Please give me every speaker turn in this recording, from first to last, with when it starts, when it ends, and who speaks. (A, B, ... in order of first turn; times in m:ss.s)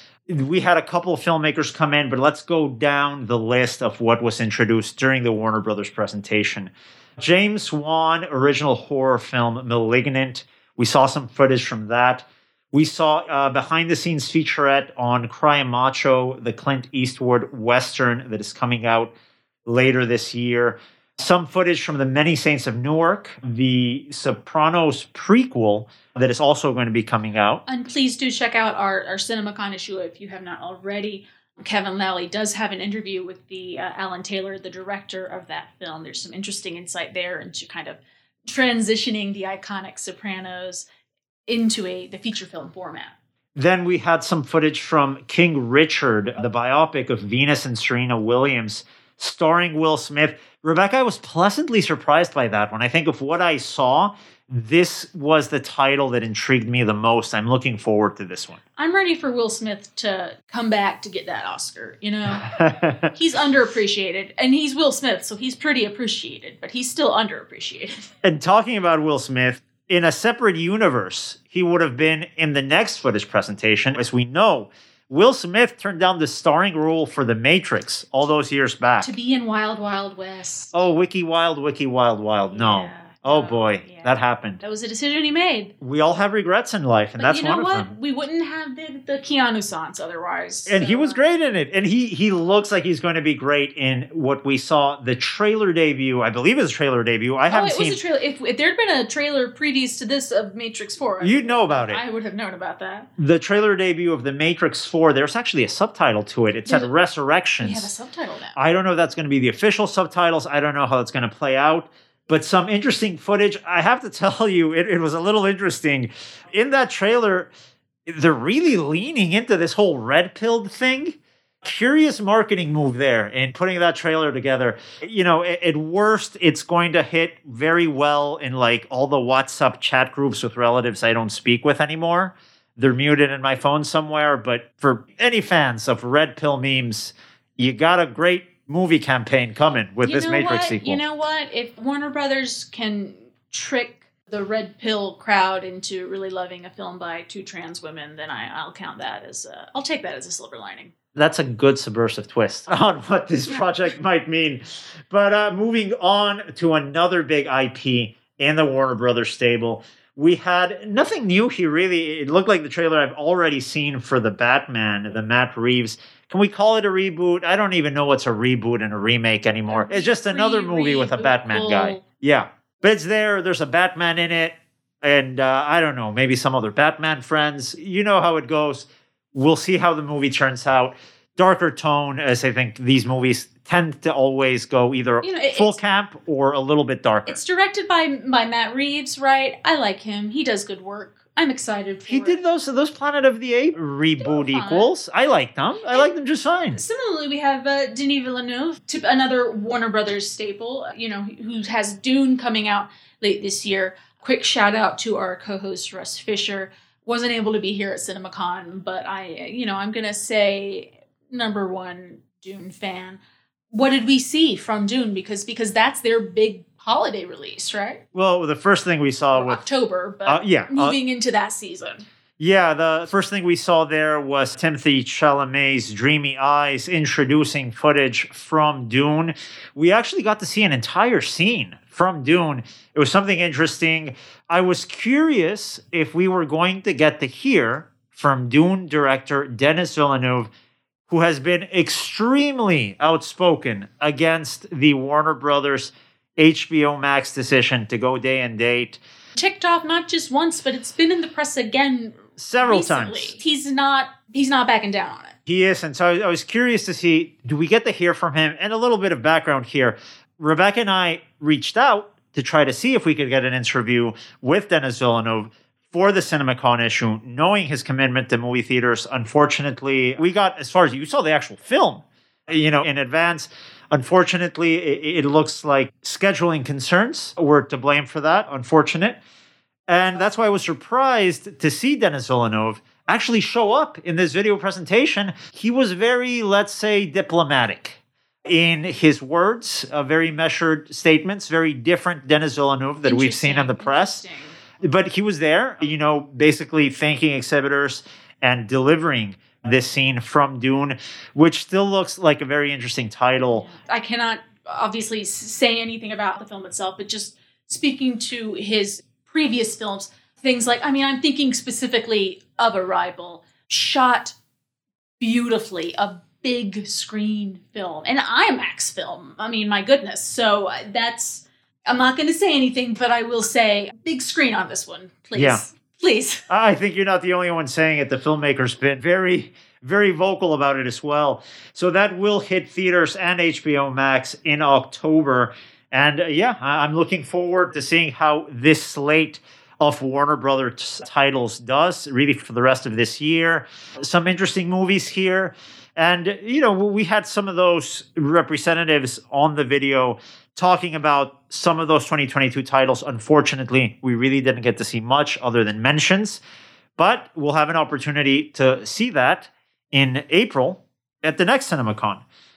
0:00.3-0:19.1 A
0:19.6-0:27.6 A
0:27.7-0:40.8 B
0:41.5-0:43.1 B
0:43.6-0:58.6 A
0:58.8-1:02.5 B
1:02.4-1:03.1 A
1:03.1-1:08.0 B
1:08.2-1:19.1 A
1:19.0-1:20.7 B
1:20.7-1:24.6 A
1:22.5-1:25.7 B
1:25.8-1:27.9 A
1:27.2-1:31.2 B
1:30.7-1:38.0 A
1:37.5-1:43.1 B
1:41.2-1:42.0 A
1:43.2-1:47.9 A
1:46.6-1:46.9 B
1:47.6-1:48.6 B
1:48.5-1:57.5 A
1:58.0-2:21.0 A
2:20.0-2:30.9 B
2:31.1-3:07.4 A
2:49.7-2:52.0 B
3:05.2-3:05.8 B
3:07.3-3:12.4 B
3:12.1-3:16.8 A
3:14.2-3:14.9 B
3:16.8-3:33.2 B
3:33.7-3:38.0 B
3:38.1-3:39.6 A
3:39.3-3:42.0 B
3:40.2-3:41.0 A
3:42.4-4:00.5 A
4:01.1-4:09.0 A
4:09.4-4:15.4 B
4:12.4-4:13.4 A
4:15.4-4:39.2 A
4:39.9-4:54.2 A
4:53.0-4:54.6 B
4:54.8-5:03.7 A
5:03.5-5:14.3 B
5:15.2-5:26.4 B
5:25.4-5:25.6 A
5:26.5-5:56.4 A
5:57.0-6:02.2 A